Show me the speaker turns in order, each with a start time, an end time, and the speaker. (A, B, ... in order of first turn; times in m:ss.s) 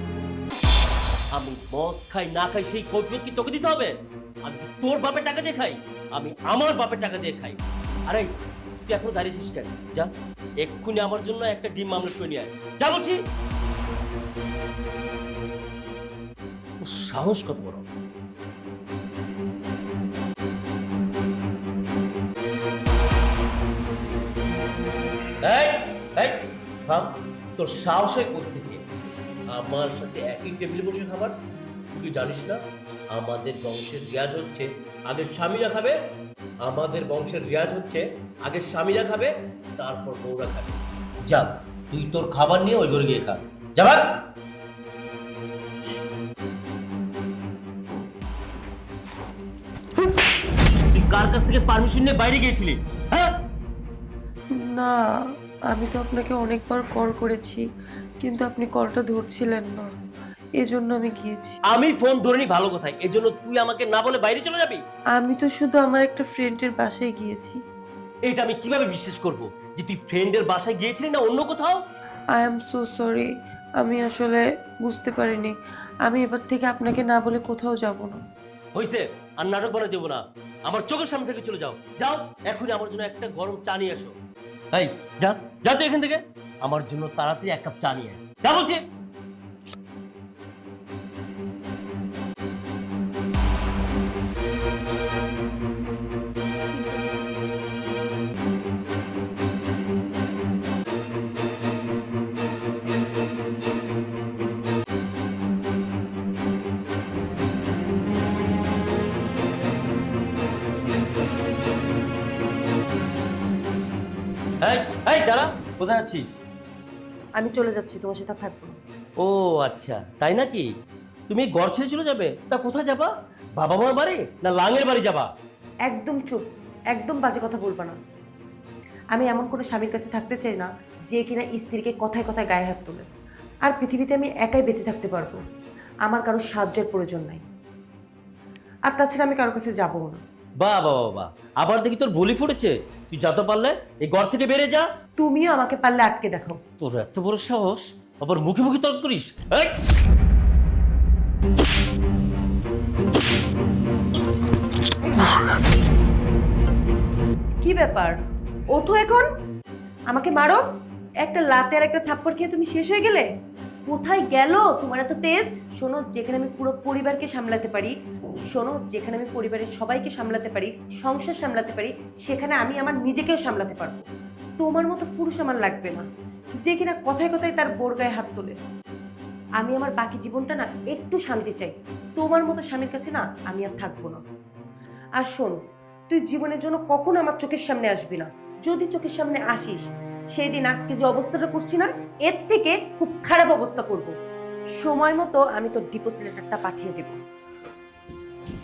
0:01.3-0:08.3 A
0:08.9-0:10.1 A
0:10.6-0:13.2 A
0:16.8-0:17.9 A
0:25.4-0:28.8 A
0:29.5-0:31.4 A
0:31.9-0:32.6 A
0:33.1-0:36.0 A
0:36.6-0:44.2 A
0:50.9-0:53.4 A
0:55.7-0:57.6 B
0:58.2-0:59.8 B
1:00.6-1:01.5 B
1:01.7-1:04.8 A
1:05.2-1:07.6 B
1:08.2-1:11.8 A
1:12.4-1:13.2 B
1:13.8-1:15.5 B
1:16.1-1:18.1 B
1:18.7-1:24.1 A
1:24.7-1:28.8 A
1:54.6-1:56.4 A
1:57.4-1:58.8 C
1:59.2-2:00.7 A
2:01.3-2:05.3 A
2:05.8-2:08.0 C
2:09.1-2:13.0 C
2:13.6-2:15.4 C
2:16.1-2:17.4 C
2:18.9-2:20.2 C
2:20.6-2:24.9 A
2:25.2-2:26.6 C
2:26.8-2:29.8 A
2:37.6-2:38.2 C
2:38.7-2:39.3 C
2:40.1-2:40.6 C
2:41.2-2:43.3 C
2:43.9-2:47.9 C
2:48.5-2:54.0 C
2:54.6-2:56.0 C
2:56.6-2:58.6 C
2:59.6-3:04.2 C
3:05.2-3:14.1 C
3:14.8-3:17.2 C